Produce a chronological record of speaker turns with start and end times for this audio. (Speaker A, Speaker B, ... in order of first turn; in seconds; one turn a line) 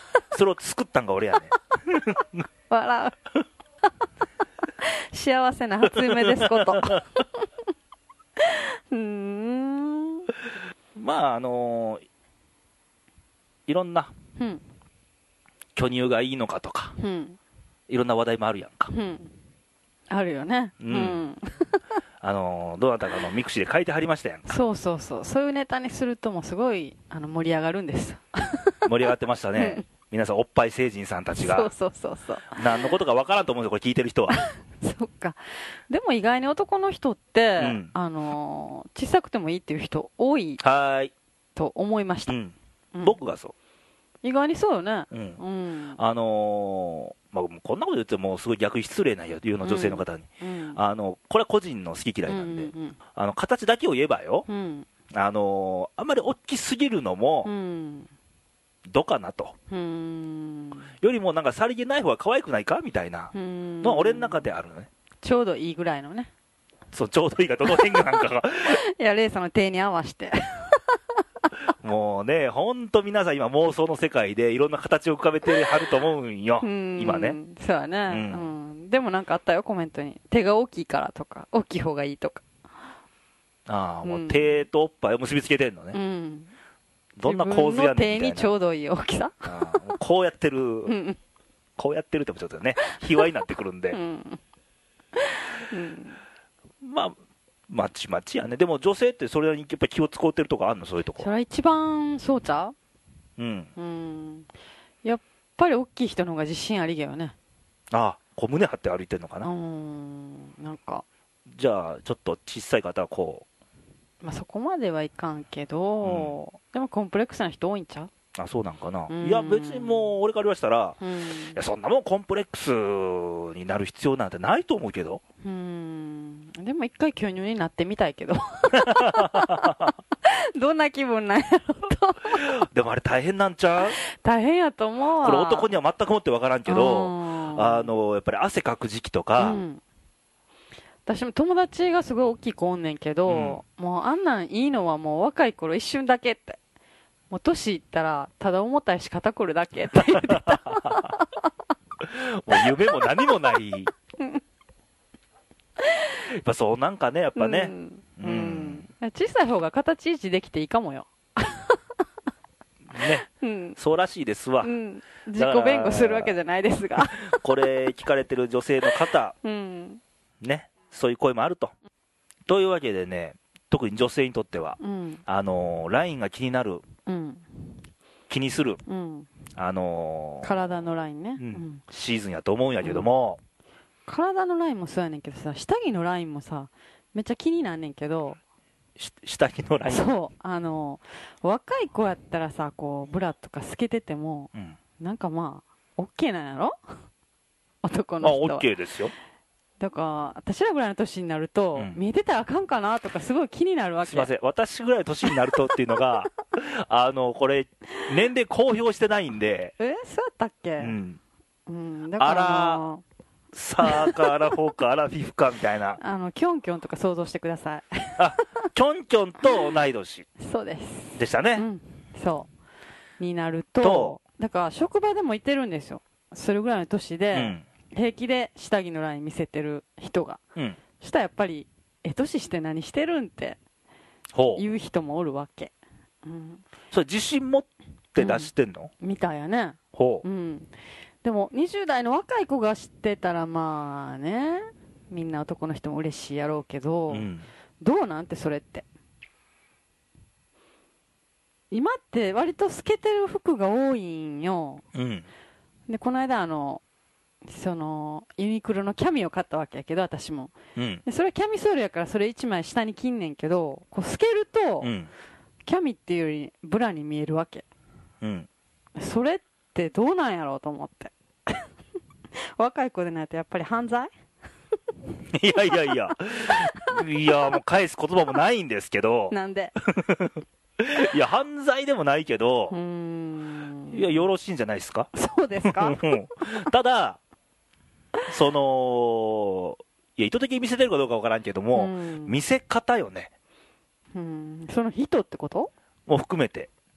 Speaker A: 0.3-2.4
Speaker B: 2.7-3.2
Speaker B: 4.8-7.5
Speaker A: 5.9-7.0
Speaker B: 8.4-10.3
Speaker A: 10.9-12.0
Speaker A: 13.7-14.1
Speaker B: 14.3-14.6
Speaker A: 15.8-16.9
Speaker B: 17.0-17.4
Speaker A: 17.9-18.9
Speaker B: 18.9-19.3
Speaker B: 20.1-21.8
Speaker A: 20.8-21.2
Speaker A: 22.2-24.6
Speaker B: 24.5-28.9
Speaker A: 28.9-31.7
Speaker B: 29.6-29.8
Speaker B: 31.3-32.9
Speaker A: 32.5-34.4
Speaker B: 34.3-40.6
Speaker A: 37.6-37.9
Speaker A: 40.6-41.1
Speaker B: 41.5-42.3
Speaker A: 42.3-43.5
Speaker B: 44.2-46.0
Speaker A: 45.1-45.4
Speaker A: 46.0-54.5
Speaker B: 49.6-50.8
Speaker B: 52.3-53.0
Speaker B: 54.5-54.9
Speaker A: 55.1-57.5
Speaker B: 57.4-58.1
Speaker A: 58.9-59.5
Speaker B: 59.7-60.9
Speaker A: 61.0-64.9
Speaker B: 63.3-64.5
Speaker B: 65.2-66.3
Speaker A: 66.9-68.8
Speaker B: 67.7-71.0
Speaker A: 71.8-77.4
Speaker B: 76.6-82.4
Speaker A: 78.1-78.5
Speaker A: 83.7-86.0
Speaker B: 84.0-84.7
Speaker B: 85.9-86.5
Speaker A: 87.2-88.5
Speaker B: 87.2-89.9
Speaker A: 89.5-90.9
Speaker B: 90.8-91.2
Speaker A: 91.8-94.0
Speaker B: 92.8-93.2
Speaker B: 93.9-94.4
Speaker B: 95.1-96.2
Speaker A: 96.8-97.2
Speaker A: 97.7-101.3
Speaker B: 101.2-102.7
Speaker A: 103.4-103.7
Speaker B: 103.8-104.5
Speaker B: 105.0-107.3
Speaker A: 107.9-109.5
Speaker B: 109.4-111.0
Speaker A: 111.5-113.4
Speaker B: 114.2-118.1
Speaker A: 116.0-116.3
Speaker A: 118.3-121.0
Speaker B: 119.1-120.1
Speaker B: 121.0-121.6
Speaker A: 121.5-125.2
Speaker B: 125.4-132.6
Speaker A: 128.8-129.9
Speaker A: 132.3-134.0
Speaker B: 133.8-135.7
Speaker A: 135.2-139.6
Speaker B: 136.7-137.9
Speaker B: 139.4-139.8
Speaker B: 141.1-146.6
Speaker A: 143.3-143.6
Speaker B: 147.3-151.4
Speaker A: 149.9-151.1
Speaker A: 152.0-153.9
Speaker B: 152.5-153.0
Speaker B: 155.8-156.1
Speaker A: 156.3-158.9
Speaker B: 157.3-161.8
Speaker A: 162.9-163.2
Speaker B: 163.0-163.8
Speaker A: 163.8-164.7
Speaker B: 164.6-167.7
Speaker A: 165.3-166.3
Speaker A: 167.0-169.3
Speaker B: 169.4-170.0
Speaker A: 170.4-171.7
Speaker A: 172.5-176.8
Speaker B: 174.8-175.2
Speaker B: 177.1-177.8
Speaker A: 178.3-178.8
Speaker B: 178.8-179.3
Speaker A: 179.6-180.8
Speaker B: 180.4-181.8
Speaker A: 181.4-183.4
Speaker B: 182.8-183.1
Speaker B: 184.1-188.4
Speaker A: 189.0-190.1
Speaker B: 189.9-196.8
Speaker B: 197.8-198.7
Speaker A: 198.2-199.1
Speaker B: 199.8-204.3
Speaker A: 204.0-209.7
Speaker B: 209.8-211.0
Speaker A: 210.8-211.2
Speaker B: 211.7-213.0
Speaker A: 212.2-212.8
Speaker A: 213.5-216.0
Speaker B: 213.8-214.3
Speaker B: 216.0-218.7
Speaker A: 218.2-220.3
Speaker B: 219.4-219.7
Speaker B: 220.4-222.5
Speaker A: 221.2-221.7
Speaker B: 223.2-230.4
Speaker A: 223.8-224.2
Speaker A: 227.3-227.6
Speaker B: 231.0-233.6
Speaker A: 234.3-234.6
Speaker B: 234.5-236.6
Speaker A: 236.9-238.9
Speaker B: 238.2-240.7
Speaker A: 239.9-240.2
Speaker B: 241.2-247.3
Speaker A: 247.1-247.4
Speaker B: 247.8-248.8
Speaker B: 251.7-254.8
Speaker A: 254.9-255.2
Speaker B: 255.9-256.8
Speaker B: 257.4-260.5
Speaker A: 260.8-261.0
Speaker B: 261.0-264.9
Speaker A: 264.8-265.1
Speaker B: 265.6-267.6
Speaker A: 268.2-268.5
Speaker B: 268.9-271.6
Speaker B: 272.4-274.1
Speaker A: 275.3-279.3
Speaker B: 279.3-279.8
Speaker A: 279.9-282.8
Speaker B: 282.7-284.2
Speaker A: 283.9-285.1
Speaker B: 285.1-286.2
Speaker A: 285.6-287.2
Speaker A: 288.3-293.3
Speaker B: 291.7-292.4
Speaker B: 294.1-295.7
Speaker A: 296.1-296.7